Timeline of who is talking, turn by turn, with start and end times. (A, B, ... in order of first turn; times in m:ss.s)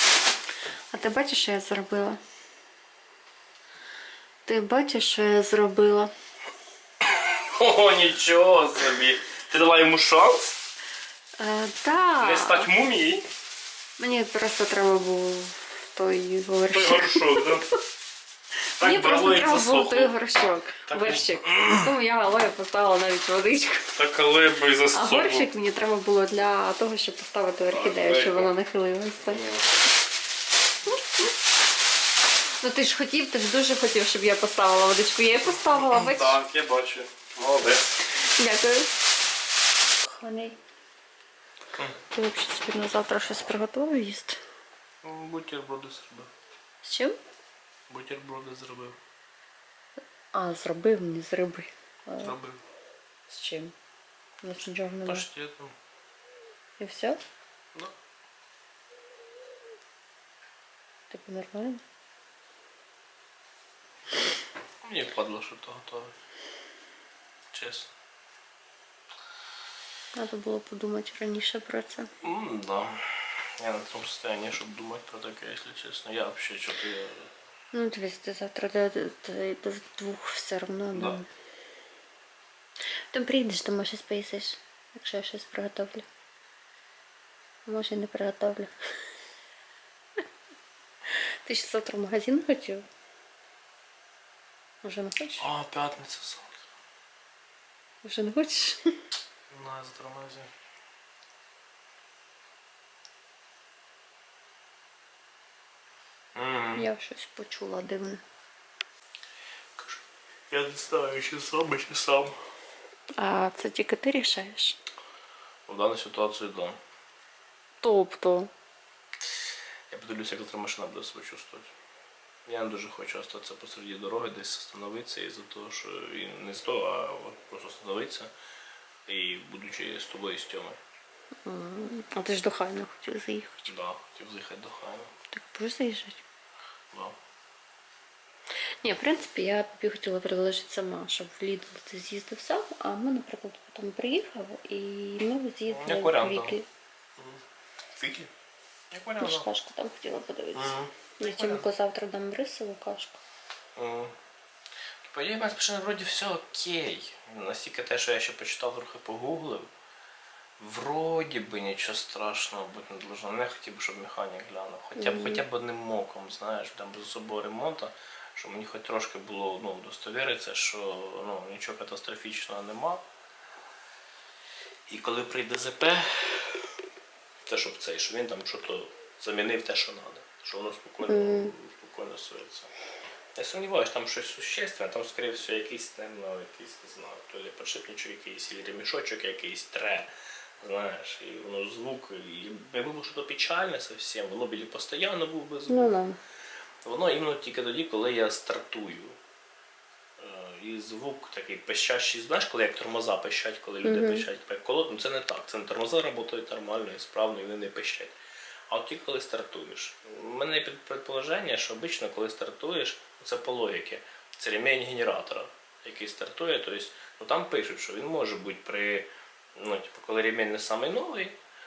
0:00.9-0:02.2 A
0:04.4-0:06.1 A
0:07.0-0:10.6 B
0:11.4-0:12.7 A
0:12.2-0:13.3 B
0:14.0-0:17.6 A
0:16.7-0:17.7 B
0:18.8-0:24.0 A
0:18.8-0:20.1 B
0:20.9-0:21.9 B
0:23.9-0:25.5 B
0:24.9-0:29.4 A
0:27.7-0:28.5 B
0:29.2-0:29.6 B
0:32.6-0:36.4 A
0:35.5-0:38.0 B
0:38.2-0:39.0 A
0:40.0-0:40.6 A
0:42.1-0:44.4 A
0:45.0-0:46.3 B
0:46.8-0:47.2 A
0:47.9-0:49.0 B
0:50.3-0:52.4 A
0:52.2-0:52.6 B
0:53.3-0:53.7 A
0:54.4-0:55.3 A
0:55.0-0:55.8 B
0:56.8-0:57.2 A
1:01.1-1:01.8 A
1:04.8-1:06.1 B
1:07.5-1:07.9 B
1:10.1-1:12.1 A
1:12.2-1:17.3 B
1:17.7-1:21.2 A
1:20.9-1:21.2 B
1:23.1-1:26.1 A
1:27.6-1:28.7 A
1:31.1-1:32.8 A
1:34.8-1:35.5 A
1:35.4-1:36.6 B
1:38.0-1:39.0 A
1:39.5-1:40.5 B
1:46.3-1:46.9 B
1:46.8-1:48.2 A
1:49.8-1:52.4 B
1:53.2-1:54.8 A
1:55.7-1:56.8 B
1:57.8-1:58.5 A
1:59.9-2:01.7 B
2:02.4-2:08.3 B
2:09.1-2:10.8 B
2:11.4-2:13.7 A
2:13.7-2:15.1 B
2:15.3-2:16.2 A
2:16.9-2:17.2 B
2:18.8-2:26.6 A
2:25.7-2:26.6 B
2:27.2-2:27.4 B
2:28.0-2:28.3 B
2:28.9-2:29.5 B
2:29.2-2:33.2 A
2:30.5-2:31.6 B
2:33.8-2:34.1 B
2:35.0-2:39.7 B
2:40.6-2:53.0 B
2:45.0-2:45.4 A
2:54.9-2:56.7 B
2:57.4-3:02.7 B
3:01.0-3:01.5 A
3:03.3-3:10.1 B
3:10.6-3:16.0 B
3:15.7-3:16.2 A
3:16.8-3:19.2 B
3:20.2-3:28.2 B
3:23.8-3:24.2 A
3:28.7-3:41.4 B